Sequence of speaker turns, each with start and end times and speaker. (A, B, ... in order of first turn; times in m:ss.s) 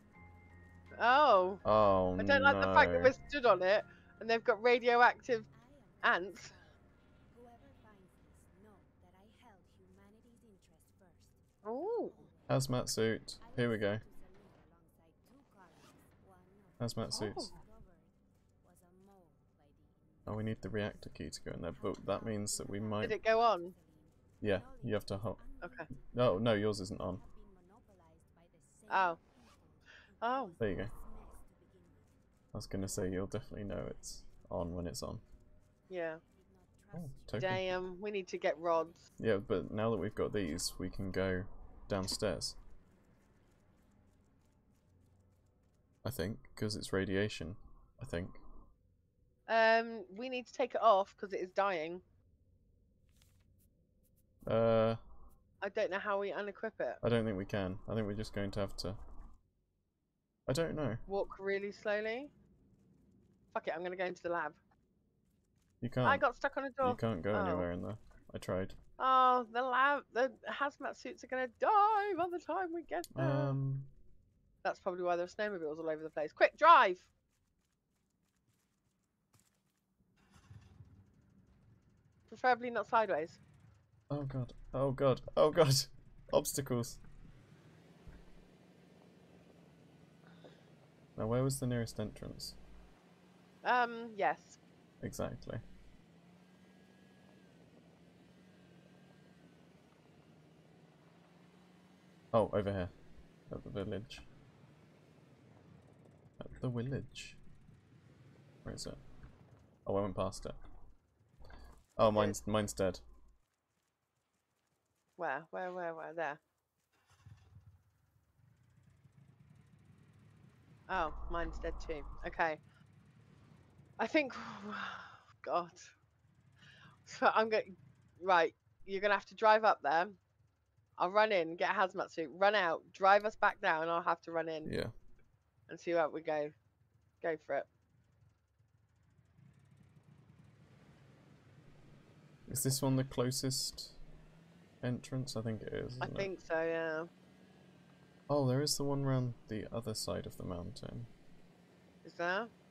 0:00.9-0:01.6 A
0:01.6-0:03.1 B
0:02.2-0:05.4 A
0:05.2-0:12.8 C
0:06.0-0:06.5 A
0:11.6-0:12.2 A
0:12.5-0:14.0 B
0:13.4-0:35.3 C
0:16.8-0:17.5 B
0:17.1-0:17.6 A
0:20.2-0:23.2 B
0:23.0-0:23.7 A
0:24.4-0:25.4 B
0:25.6-0:25.9 A
0:26.1-0:27.2 B
0:28.9-0:29.2 A
0:30.2-0:30.6 A
0:30.6-0:30.9 B
0:32.5-0:35.2 B
0:35.8-0:39.5 C
0:35.9-0:36.2 A
0:36.9-0:37.7 B
0:37.4-0:39.0 A
0:39.2-0:42.6 B
0:46.0-0:48.4 B
0:49.5-0:52.0 A
0:54.4-0:55.0 B
0:55.6-0:57.0 A
0:57.0-0:59.0 B
1:00.5-1:01.0 B
1:01.1-1:02.3 A
1:03.5-1:04.6 A
1:05.8-1:06.2 B
1:06.0-1:07.7 A
1:06.8-1:08.8 B
1:09.0-1:13.6 A
1:13.1-1:13.9 B
1:14.6-1:17.1 A
1:22.3-1:23.4 A
1:24.1-1:27.0 B
1:31.2-1:32.6 B
1:33.6-1:34.6 A
1:35.0-1:35.6 B
1:42.3-1:42.9 B
1:43.5-1:44.2 B
1:46.4-1:47.4 B
1:48.6-1:49.0 B
1:49.8-1:50.6 B
1:52.0-1:53.0 B
1:52.1-1:52.4 A
1:55.2-1:56.4 A
2:00.9-2:02.6 A
2:04.0-2:05.9 A
2:07.0-2:10.2 A
2:11.0-2:14.7 A
2:14.6-2:14.9 B
2:15.7-2:16.5 A
2:17.2-2:17.7 A
2:22.5-2:24.0 B
2:24.8-2:26.3 B
2:26.0-2:27.1 A
2:28.3-2:31.1 B
2:32.0-2:32.5 A